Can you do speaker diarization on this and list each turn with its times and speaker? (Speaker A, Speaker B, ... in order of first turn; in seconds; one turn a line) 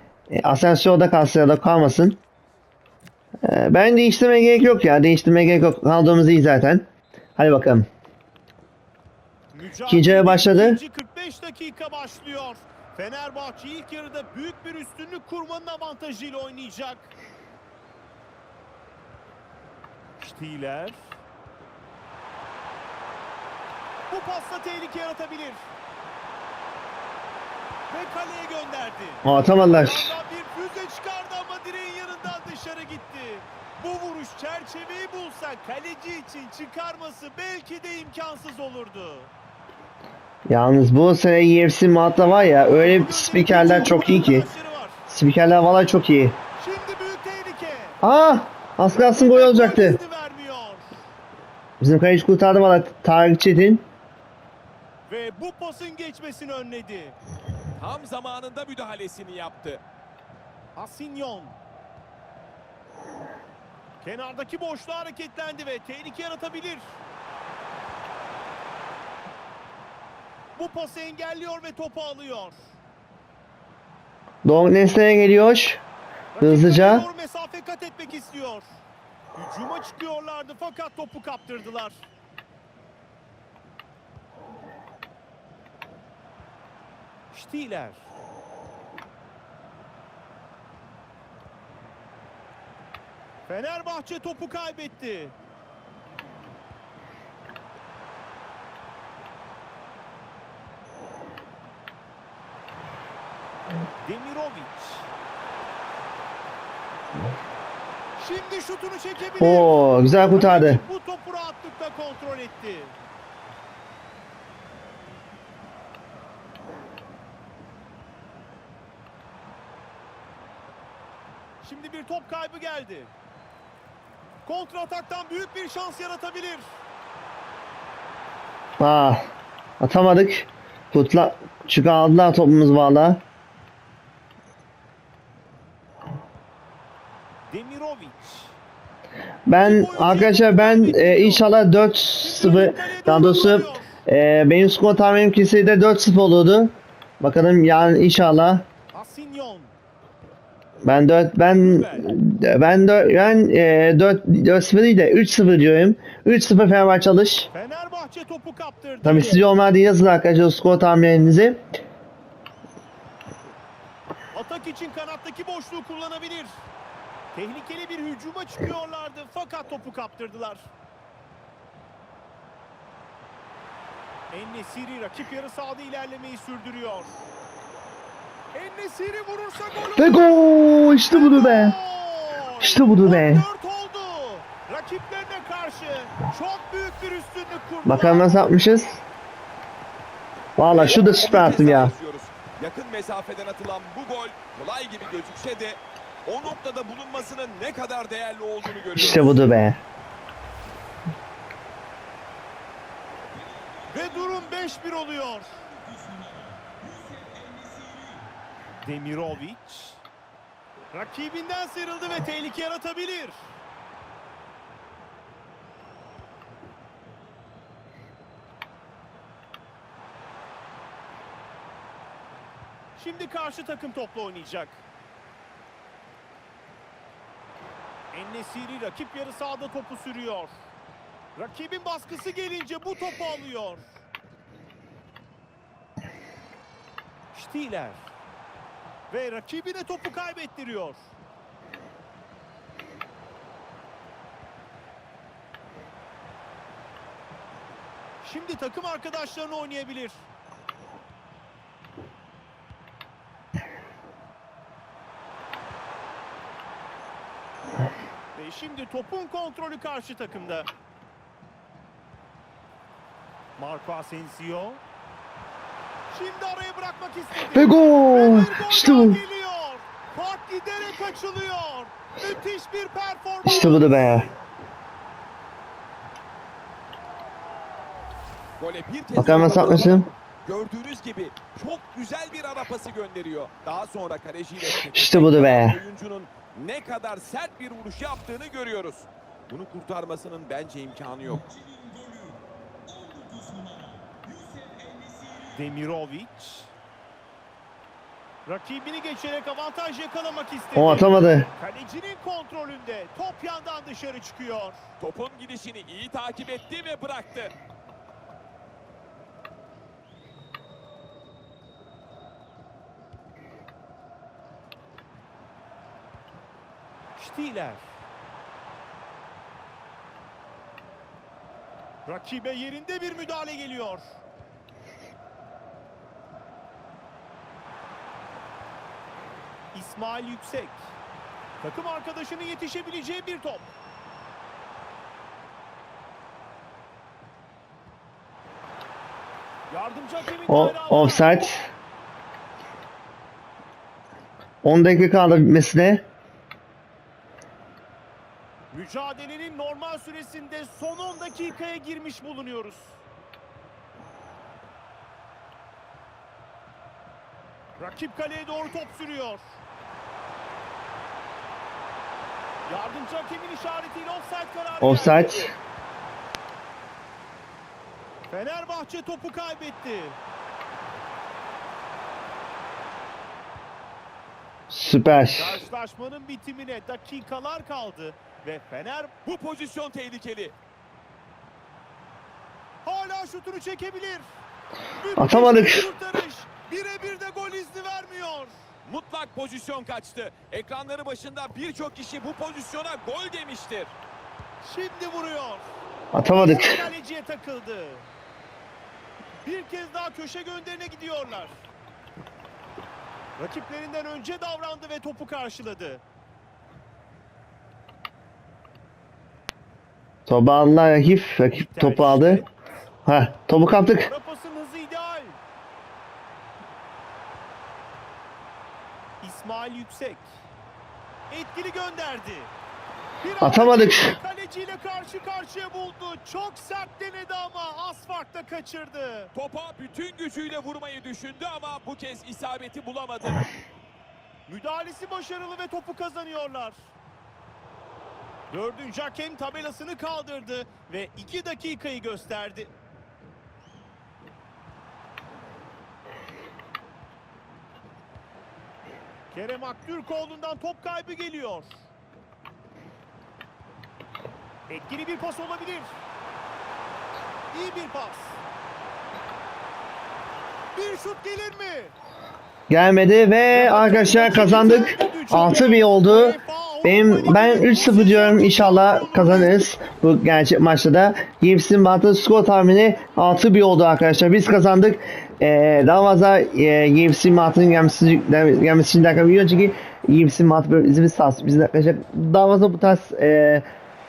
Speaker A: 0.3-2.2
Speaker A: 3.5-6.9
Speaker A: 7.4-7.9
Speaker B: 9.5-17.1
Speaker A: 9.9-10.8
Speaker B: 20.2-21.0
Speaker B: 24.1-25.6
Speaker B: 27.9-39.3
Speaker A: 29.2-30.1
Speaker A: 40.5-44.5
Speaker B: 42.5-45.0
Speaker A: 45.1-46.4
Speaker B: 46.6-48.0
Speaker A: 48.0-50.0
Speaker B: 49.1-51.0
Speaker A: 51.8-53.8
Speaker B: 55.1-57.2
Speaker C: 57.8-59.8
Speaker B: 60.8-61.6
Speaker B: 64.0-67.0
Speaker B: 70.6-72.7
Speaker A: 74.4-75.8
Speaker B: 76.3-78.7
Speaker A: 76.4-77.0
Speaker B: 79.3-82.1
Speaker B: 87.3-88.1
Speaker B: 93.5-95.3
Speaker B: 104.0-105.1
Speaker B: 108.2-113.0
Speaker A: 109.4-110.8
Speaker B: 121.6-123.1
Speaker B: 124.5-126.8
Speaker A: 128.8-129.2
Speaker A: 129.8-133.2
Speaker B: 137.5-138.6
Speaker A: 139.5-148.7
Speaker B: 139.6-141.5
Speaker B: 142.2-144.0
Speaker B: 148.9-149.7
Speaker A: 150.8-157.5
Speaker B: 151.6-152.1
Speaker B: 157.5-159.4
Speaker A: 159.0-161.6
Speaker B: 164.3-166.6
Speaker B: 167.3-170.7
Speaker B: 174.3-177.2
Speaker B: 178.5-180.3
Speaker A: 180.0-181.8
Speaker B: 181.1-188.5
Speaker A: 182.6-183.5
Speaker A: 187.9-189.0
Speaker A: 190.6-191.9
Speaker C: 190.7-199.4
Speaker A: 198.9-199.8
Speaker C: 203.7-204.5
Speaker B: 203.9-205.6
Speaker C: 206.1-206.7
Speaker C: 207.3-207.8
Speaker B: 208.8-210.0
Speaker B: 210.9-213.5
Speaker B: 223.0-224.8
Speaker B: 228.1-230.6
Speaker B: 231.4-233.9
Speaker B: 237.3-238.1
Speaker B: 239.1-241.1
Speaker B: 248.2-250.3
Speaker B: 258.3-260.7
Speaker B: 263.6-264.8
Speaker B: 266.1-274.2
Speaker A: 267.5-269.2
Speaker A: 273.4-274.3
Speaker C: 278.6-292.4
Speaker A: 279.1-280.1
Speaker A: 284.9-285.8
Speaker C: 293.1-295.5
Speaker B: 295.5-296.7
Speaker B: 298.5-304.8
Speaker A: 300.8-301.5
Speaker C: 305.0-307.5
Speaker B: 317.2-317.9
Speaker B: 322.1-324.2
Speaker B: 329.7-330.8
Speaker B: 331.6-333.7
Speaker B: 339.7-341.6
Speaker A: 340.5-341.7
Speaker A: 344.6-346.1
Speaker B: 348.7-353.0
Speaker B: 357.8-359.4
Speaker B: 362.7-365.5
Speaker A: 364.8-365.5
Speaker B: 368.3-370.2
Speaker A: 374.7-375.6
Speaker B: 375.4-379.1
Speaker C: 379.2-380.6
Speaker B: 382.8-384.3
Speaker B: 385.0-388.6
Speaker A: 385.2-385.8
Speaker C: 388.9-393.9
Speaker B: 394.6-395.7
Speaker A: 396.1-396.8
Speaker B: 396.3-398.1
Speaker B: 399.4-401.6
Speaker B: 403.4-406.0
Speaker A: 410.3-412.4
Speaker B: 411.5-412.5
Speaker A: 413.1-414.1
Speaker B: 414.1-415.4
Speaker B: 419.2-420.3
Speaker B: 421.3-422.5
Speaker B: 423.2-429.3
Speaker A: 423.4-424.1
Speaker C: 429.4-433.4
Speaker B: 434.5-436.9
Speaker B: 438.5-442.7
Speaker B: 449.3-451.8
Speaker B: 454.7-455.9
Speaker B: 457.5-458.4
Speaker B: 460.7-461.9
Speaker A: 462.7-483.6
Speaker B: 463.5-469.7